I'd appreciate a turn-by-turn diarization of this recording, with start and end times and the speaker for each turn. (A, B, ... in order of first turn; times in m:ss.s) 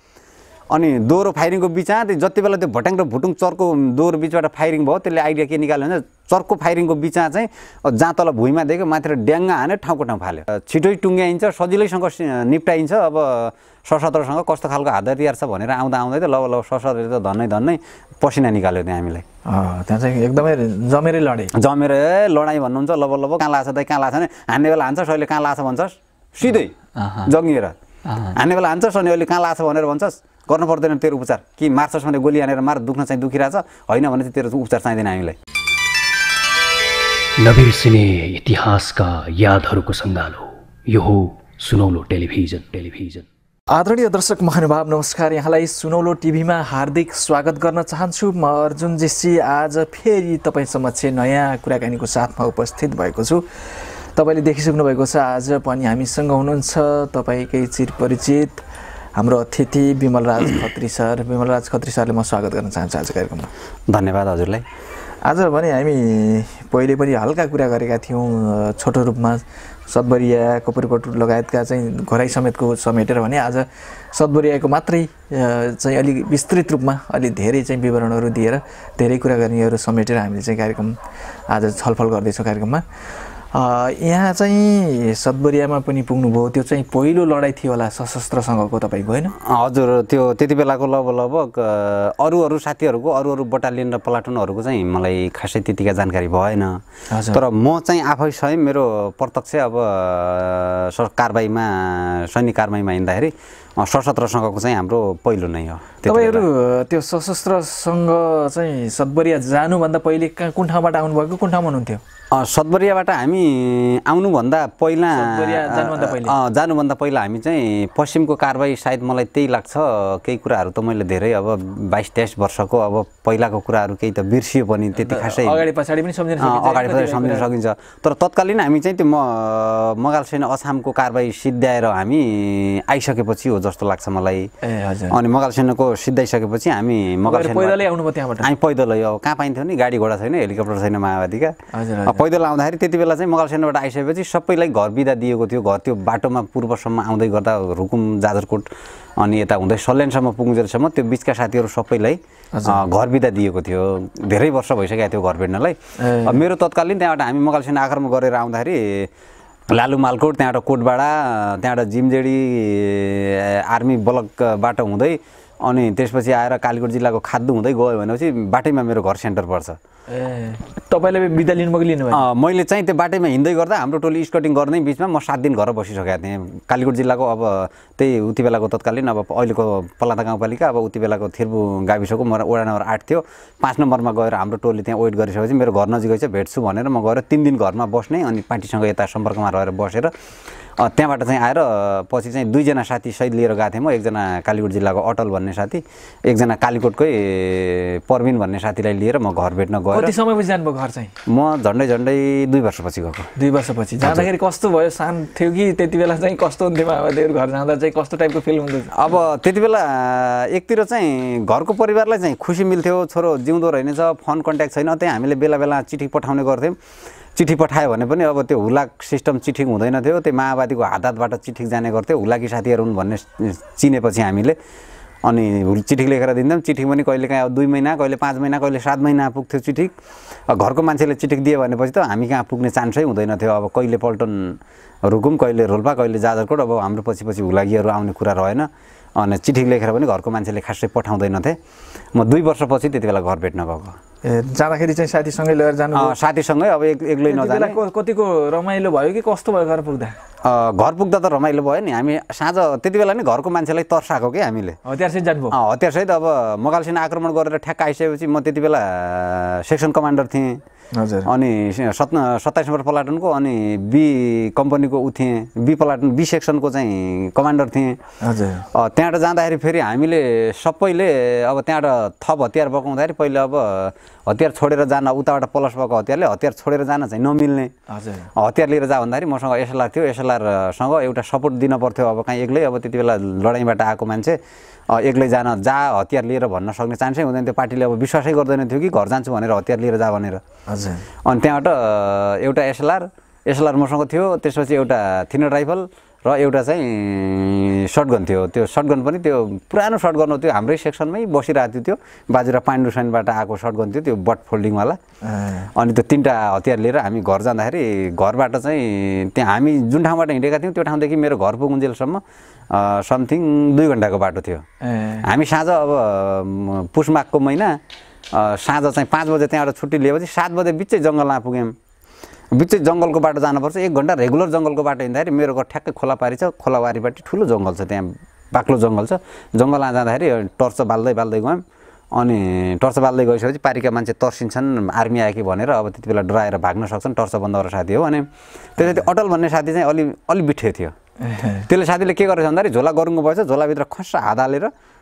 0:00.7-0:19.2 A
0:19.4-0:21.5 B
0:21.5-0:27.7 A
0:27.0-0:27.3 B
0:28.0-0:28.3 B
0:28.3-0:35.4 A
0:37.4-0:43.2 C
0:43.7-0:58.6 B
0:59.2-1:03.5 B
1:03.9-1:04.6 A
1:05.2-1:21.0 B
1:21.5-1:22.8 B
1:23.5-1:29.3 B
1:29.4-1:36.8 A
1:37.1-1:37.4 B
1:37.3-1:46.5 A
1:46.0-1:52.0 B
1:52.3-2:05.6 A
1:55.1-1:56.4 B
2:05.0-2:07.5 B
2:06.4-2:14.5 A
2:14.6-2:15.2 B
2:15.1-2:17.8 A
2:17.2-2:18.5 B
2:18.4-2:21.5 A
2:21.7-2:22.2 B
2:22.0-2:28.7 A
2:29.2-2:39.1 A
2:32.5-2:32.8 B
2:36.0-2:36.4 B
2:39.7-2:49.8 A
2:50.1-2:52.2 B
2:52.1-3:10.1 A
3:10.8-3:20.1 A
3:19.9-3:21.1 B
3:21.2-3:23.3 A
3:23.4-3:29.2 B
3:24.0-3:24.3 A
3:28.9-3:36.8 A
3:37.4-3:44.6 A
3:45.2-3:49.9 A
3:50.5-4:01.5 A
4:02.1-4:04.0 A
4:04.2-4:06.2 B
4:05.9-4:07.8 A
4:07.2-4:10.2 B
4:10.4-4:14.8 A
4:14.8-4:15.6 B
4:15.5-4:20.6 A
4:20.9-4:21.3 B
4:21.2-4:28.0 A
4:28.2-4:28.7 B
4:28.7-4:37.7 A
4:37.9-4:38.3 B
4:38.4-4:44.4 A
4:44.9-4:50.4 A
4:50.7-4:51.0 B
4:51.2-5:05.0 A
5:05.2-5:05.7 B
5:05.7-5:14.6 A
5:14.8-5:15.2 B
5:15.2-5:17.7 A
5:18.3-5:21.7 A
5:22.5-5:31.6 A
5:32.1-5:38.2 A
5:38.8-5:40.9 A
5:41.2-5:41.7 B
5:41.6-5:44.7 A